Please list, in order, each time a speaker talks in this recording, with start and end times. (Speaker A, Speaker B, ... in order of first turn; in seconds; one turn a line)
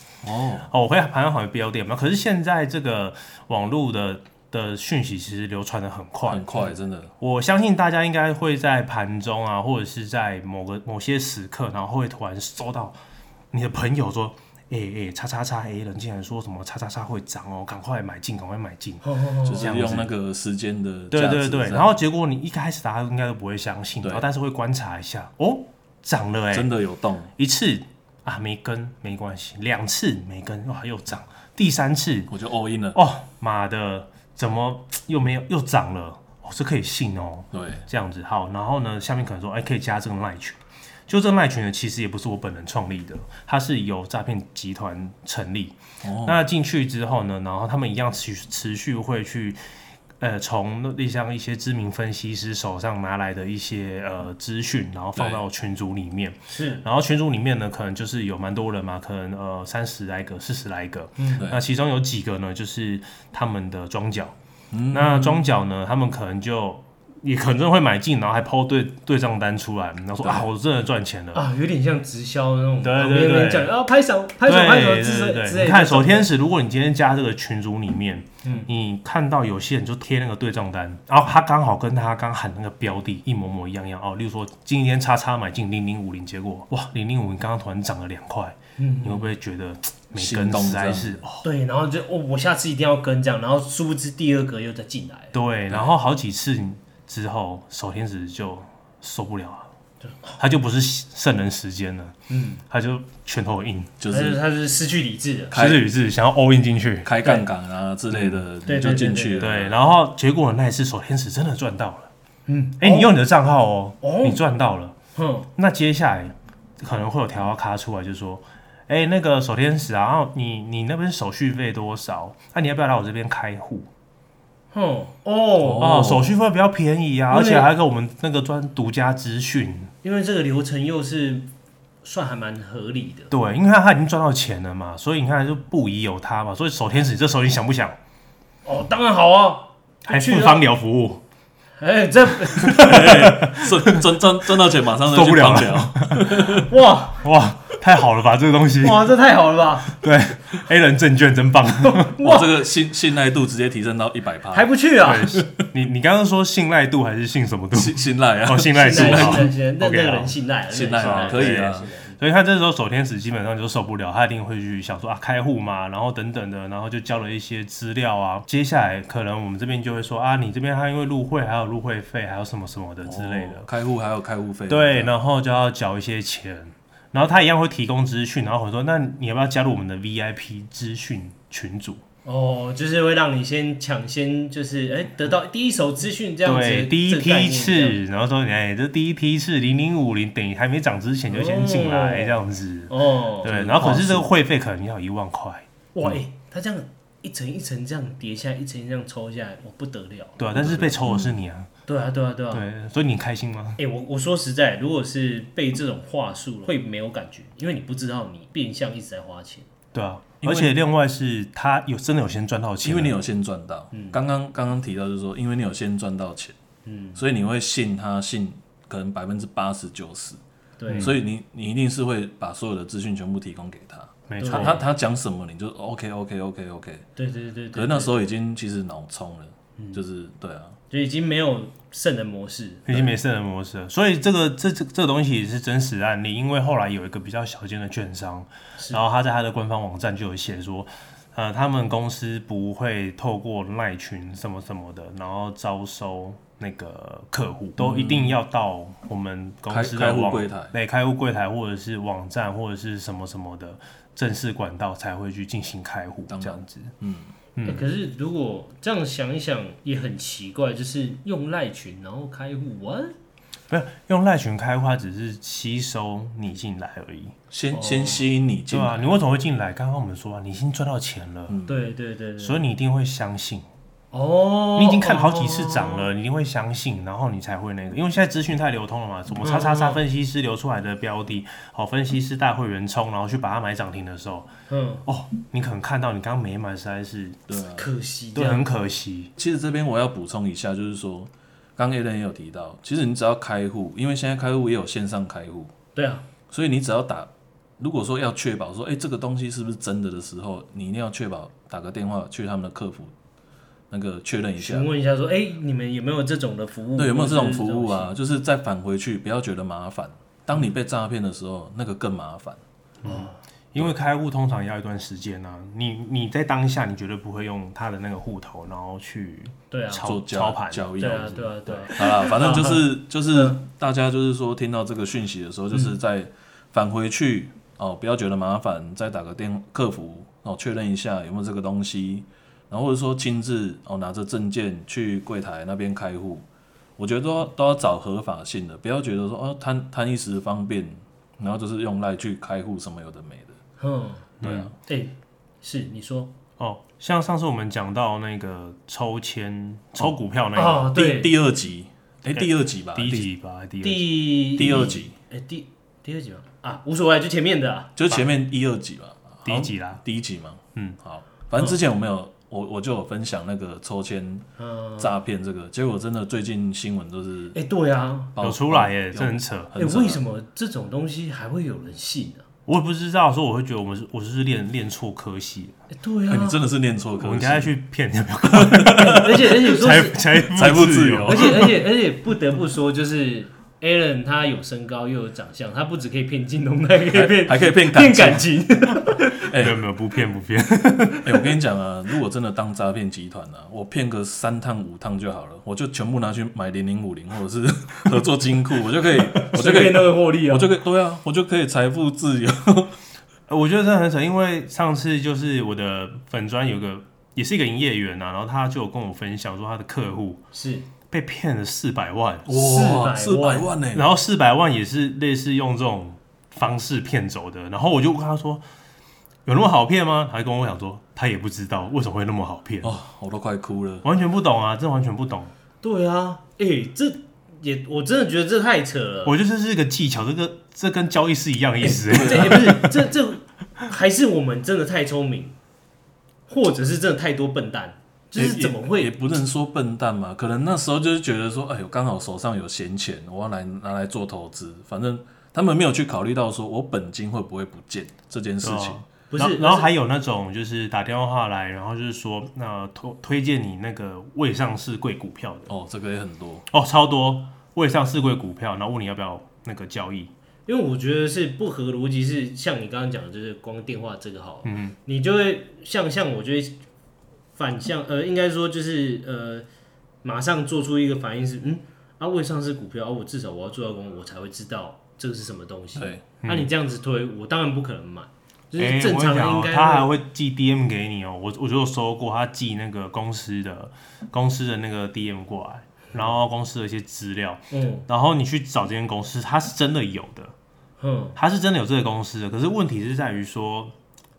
Speaker A: 0.2-0.7
Speaker B: 0.7-6.5
Speaker A: 6.3-7.1
Speaker B: 7.2-13.0
Speaker B: 13.5-20.1
Speaker C: 19.0-19.6
Speaker A: 19.4-22.0
Speaker B: 21.1-26.7
Speaker A: 24.0-24.3
Speaker A: 26.5-27.3
Speaker B: 27.4-32.3
Speaker A: 32.3-33.0
Speaker B: 32.9-40.6
Speaker A: 37.5-37.9
Speaker B: 41.1-49.6
Speaker A: 46.0-46.4
Speaker B: 50.2-64.3
Speaker A: 55.1-55.4
Speaker C: 56.5-56.8
Speaker C: 61.2-61.4
Speaker A: 64.7-65.4
Speaker B: 64.9-71.4
Speaker C: 71.3-76.3
Speaker B: 72.8-73.7
Speaker B: 74.4-91.5
Speaker C: 78.4-78.7
Speaker C: 88.8-89.3
Speaker A: 90.1-91.2
Speaker C: 91.4-95.3
Speaker B: 95.3-99.7
Speaker C: 100.0-100.4
Speaker B: 100.4-102.2
Speaker C: 102.3-102.6
Speaker B: 102.7-103.9
Speaker A: 104.0-104.4
Speaker C: 104.1-105.5
Speaker A: 105.5-105.8
Speaker B: 105.5-107.1
Speaker A: 107.0-109.8
Speaker B: 108.1-108.4
Speaker C: 108.7-109.5
Speaker B: 109.4-112.1
Speaker C: 112.5-113.1
Speaker B: 112.8-115.0
Speaker C: 114.0-114.4
Speaker C: 115.2-115.5
Speaker B: 115.6-123.9
Speaker C: 124.7-125.9
Speaker A: 125.6-126.4
Speaker B: 125.8-129.9
Speaker C: 127.3-127.7
Speaker C: 130.0-131.5
Speaker C: 132.0-133.3
Speaker B: 133.3-138.0
Speaker C: 138.7-140.6
Speaker B: 140.1-141.2
Speaker C: 141.8-142.9
Speaker B: 142.6-144.1
Speaker A: 142.6-146.7
Speaker B: 145.1-146.6
Speaker C: 146.6-147.2
Speaker B: 147.2-149.1
Speaker C: 148.8-149.9
Speaker B: 149.9-152.1
Speaker C: 151.8-152.6
Speaker A: 152.2-154.7
Speaker C: 154.5-155.3
Speaker B: 155.0-160.4
Speaker A: 157.7-159.5
Speaker C: 158.8-162.2
Speaker A: 160.7-161.9
Speaker B: 161.0-173.7
Speaker A: 173.0-175.1
Speaker B: 174.7-182.0
Speaker C: 182.2-188.0
Speaker B: 186.4-195.7
Speaker C: 191.3-193.5
Speaker A: 193.4-194.3
Speaker C: 195.9-200.4
Speaker B: 200.4-201.7
Speaker A: 200.6-201.3
Speaker C: 201.9-202.7
Speaker B: 202.5-203.8
Speaker C: 203.8-209.7
Speaker B: 209.9-213.2
Speaker A: 210.4-210.7
Speaker A: 212.8-216.6
Speaker C: 216.8-217.2
Speaker A: 217.2-220.4
Speaker C: 220.8-221.1
Speaker B: 220.9-221.2
Speaker A: 221.0-227.1
Speaker B: 224.3-224.8
Speaker C: 224.4-224.8
Speaker C: 227.2-228.1
Speaker A: 227.7-230.8
Speaker C: 230.9-233.0
Speaker B: 232.9-256.9
Speaker A: 247.8-248.3
Speaker A: 249.7-250.7
Speaker A: 256.3-257.3
Speaker B: 257.6-257.8
Speaker C: 257.6-263.1
Speaker B: 263.7-267.3
Speaker A: 267.5-269.2
Speaker C: 267.7-268.2
Speaker B: 268.7-271.6
Speaker A: 271.5-271.8
Speaker C: 271.7-272.6
Speaker B: 272.4-273.7
Speaker C: 274.1-276.1
Speaker B: 274.8-284.5
Speaker C: 279.4-280.0
Speaker C: 284.7-285.1
Speaker B: 285.1-287.4
Speaker A: 287.5-287.9
Speaker C: 287.8-288.6
Speaker B: 288.3-289.3
Speaker A: 289.4-295.7
Speaker C: 295.9-296.2
Speaker A: 296.5-303.1
Speaker A: 303.9-304.9
Speaker C: 304.6-308.1
Speaker A: 306.9-312.6
Speaker B: 313.0-321.9
Speaker C: 313.1-313.4
Speaker C: 319.7-320.1
Speaker A: 320.0-336.5
Speaker C: 321.0-323.6
Speaker A: 337.0-343.6
Speaker C: 343.8-346.3
Speaker B: 344.4-344.7
Speaker A: 344.4-344.7
Speaker B: 346.6-350.9
Speaker C: 350.6-351.3
Speaker A: 350.9-353.3
Speaker B: 352.3-354.6
Speaker C: 353.8-358.2
Speaker A: 354.6-355.1
Speaker A: 357.9-364.4
Speaker B: 359.4-360.0
Speaker C: 364.6-365.2
Speaker A: 365.0-367.6
Speaker C: 367.5-368.3
Speaker A: 368.3-370.2
Speaker B: 368.4-369.7
Speaker C: 369.8-372.4
Speaker B: 372.7-375.8
Speaker C: 375.9-376.6
Speaker A: 376.3-377.7
Speaker B: 377.2-381.8
Speaker A: 378.5-379.3
Speaker C: 378.9-380.2
Speaker A: 380.3-381.7
Speaker C: 381.2-389.5
Speaker A: 387.1-388.5
Speaker A: 389.4-389.8
Speaker B: 389.6-391.5
Speaker A: 391.2-403.0
Speaker C: 399.4-400.7
Speaker B: 403.5-410.4
Speaker C: 410.5-410.9
Speaker B: 411.1-412.5
Speaker A: 412.4-414.1
Speaker C: 412.5-413.7
Speaker B: 413.9-418.6
Speaker B: 419.4-422.9
Speaker A: 422.8-424.1
Speaker B: 424.0-425.5
Speaker C: 425.8-429.4
Speaker B: 429.2-432.9
Speaker C: 431.8-435.6
Speaker A: 432.1-432.7
Speaker C: 436.5-439.1
Speaker A: 438.4-449.0
Speaker B: 448.6-455.7
Speaker C: 449.3-449.9
Speaker A: 455.7-456.6
Speaker B: 456.7-460.3
Speaker C: 460.7-466.8
Speaker B: 464.6-464.9
Speaker C: 467.6-469.7
Speaker C: 470.2-480.1
Speaker A: 475.9-476.2
Speaker B: 476.4-476.7
Speaker B: 478.8-490.5
Speaker C: 487.7-488.1
Speaker C: 491.0-491.4
Speaker B: 491.4-493.9